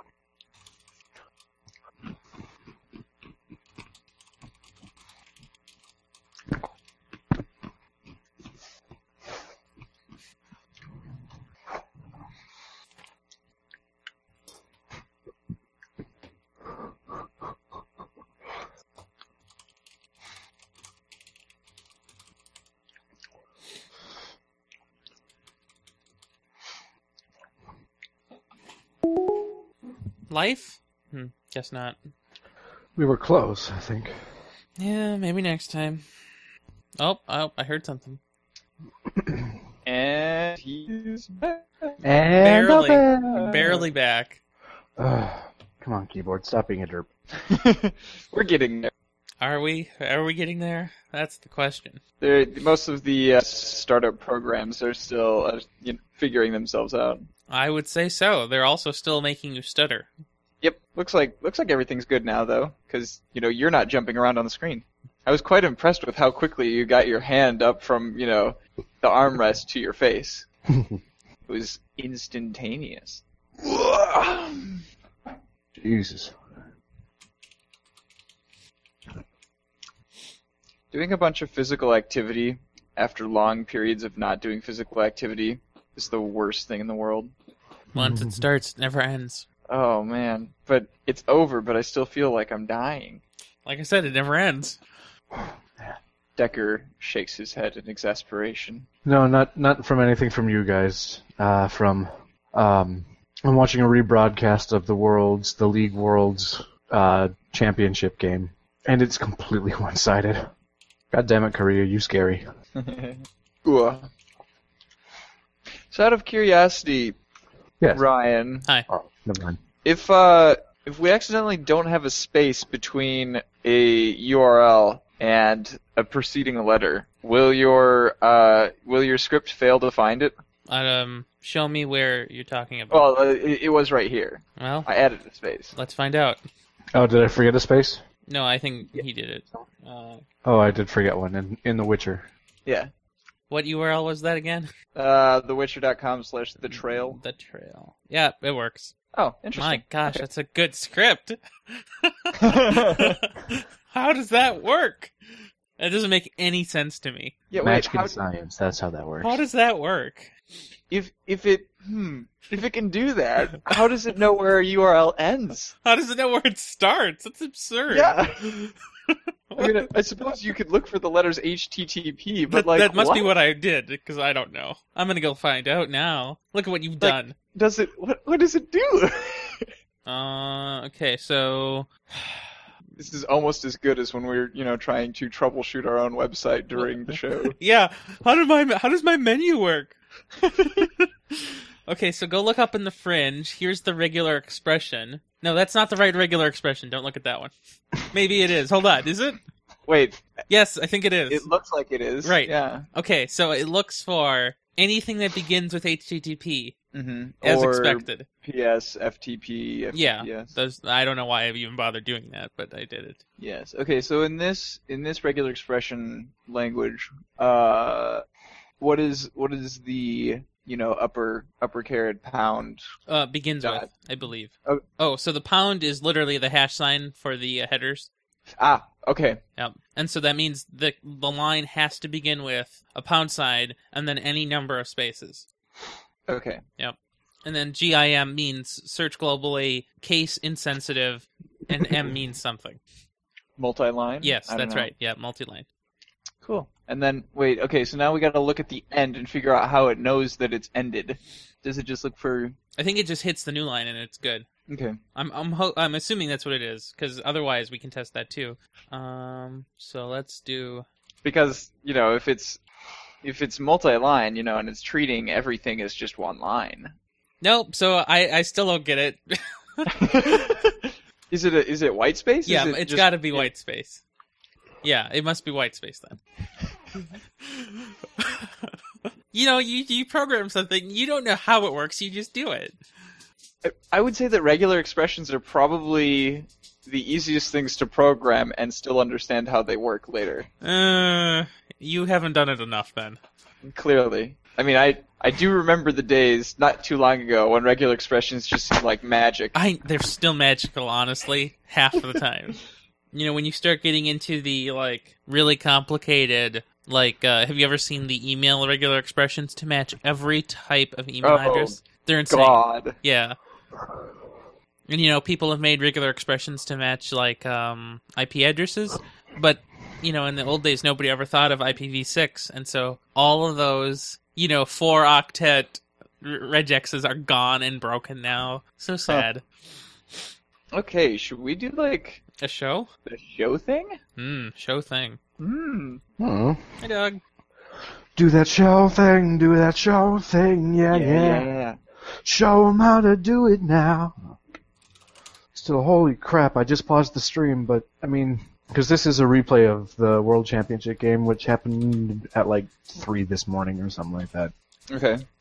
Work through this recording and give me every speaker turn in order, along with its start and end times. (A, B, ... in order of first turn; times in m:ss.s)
0:30.3-0:32.1 A
0:32.9-0:34.1 B
0:34.8-0:36.0 A
0:37.0-0:38.2 A
0:39.1-0:39.5 B
0:39.8-0:42.0 C
0:42.0-0:43.8 B
0:42.4-0:44.4 A
0:45.0-0:47.1 B
0:47.3-0:48.9 C
0:49.4-0:52.0 A
0:52.2-0:57.3 C
0:57.5-1:00.1 A
1:00.6-1:10.4 C
1:10.7-1:11.0 B
1:11.5-1:14.8 C
1:15.8-1:16.4 B
1:20.9-1:27.3 C
1:27.9-1:28.4 B
1:27.9-1:29.4 A
1:29.7-1:33.2 C
1:33.6-1:34.8 A
1:35.4-1:35.9 B
1:36.4-1:38.9 C
1:39.0-1:50.5 B
1:51.1-1:52.4 B
1:52.8-1:54.1 C
1:55.9-1:57.1 C
1:57.8-1:58.0 B
1:57.9-1:58.7 C
1:58.9-1:59.6 B
1:59.8-2:10.3 C
2:10.7-2:13.1 A
2:12.9-2:15.7 C
2:14.6-2:14.9 A
2:15.7-2:16.4 A
2:16.9-2:18.0 B
2:18.3-2:20.2 A
2:20.4-2:22.3 B
2:23.5-2:24.7 A
2:24.9-2:27.2 C
2:26.7-2:28.9 A
2:29.1-2:30.2 C
2:29.5-2:35.1 A
2:32.4-2:33.2 C
2:35.8-2:37.3 A
2:37.5-2:38.2 C
2:37.6-2:39.4 B
2:39.2-2:40.3 A
2:40.9-2:45.7 C
2:45.8-2:49.9 A
2:47.9-2:48.6 C
2:49.6-2:53.3 C
2:52.5-2:57.3 A
2:57.0-2:59.7 C
3:00.0-3:01.9 A
3:03.0-3:07.6 C
3:06.7-3:10.0 A
3:10.5-3:19.4 A
3:19.9-3:20.3 C
3:20.5-3:21.4 A
3:21.3-3:22.9 C
3:22.2-3:26.7 A
3:26.9-3:30.5 C
3:27.4-3:28.3 A
3:29.9-3:33.2 A
3:33.4-3:38.2 C
3:38.8-3:42.8 C
3:43.1-3:48.1 A
3:43.6-3:43.9 C
3:48.6-3:49.4 C
3:49.6-3:55.5 A
3:56.3-3:56.6 C
3:56.8-4:02.8 A
4:03.6-4:04.9 C
4:04.2-4:05.6 A
4:06.4-4:12.6 C
4:12.8-4:14.5 A
4:14.7-4:15.0 C
4:15.1-4:20.8 A
4:21.2-4:22.6 C
4:23.2-4:26.9 C
4:27.4-4:29.9 A
4:29.9-4:30.8 C
4:31.3-4:33.5 C
4:32.4-4:34.0 A
4:34.8-4:36.2 A
4:37.4-4:38.7 A
4:39.3-4:42.8 A
4:43.6-4:50.5 C
4:50.6-4:53.2 A
4:53.6-4:59.5 C
4:59.5-5:02.6 A
5:03.1-5:13.4 A
5:11.2-5:13.0 C
5:14.9-5:29.4 A
5:30.7-5:32.2 C
5:32.4-5:32.9 A
5:33.0-5:34.0 C
5:34.2-5:35.2 A
5:35.4-5:36.0 C
5:36.2-5:36.8 B
5:36.8-5:37.2 A
5:38.1-5:41.5 B
5:40.9-5:41.8 C
5:42.2-5:44.3 B
5:45.5-5:54.5 B
5:54.9-5:55.2 C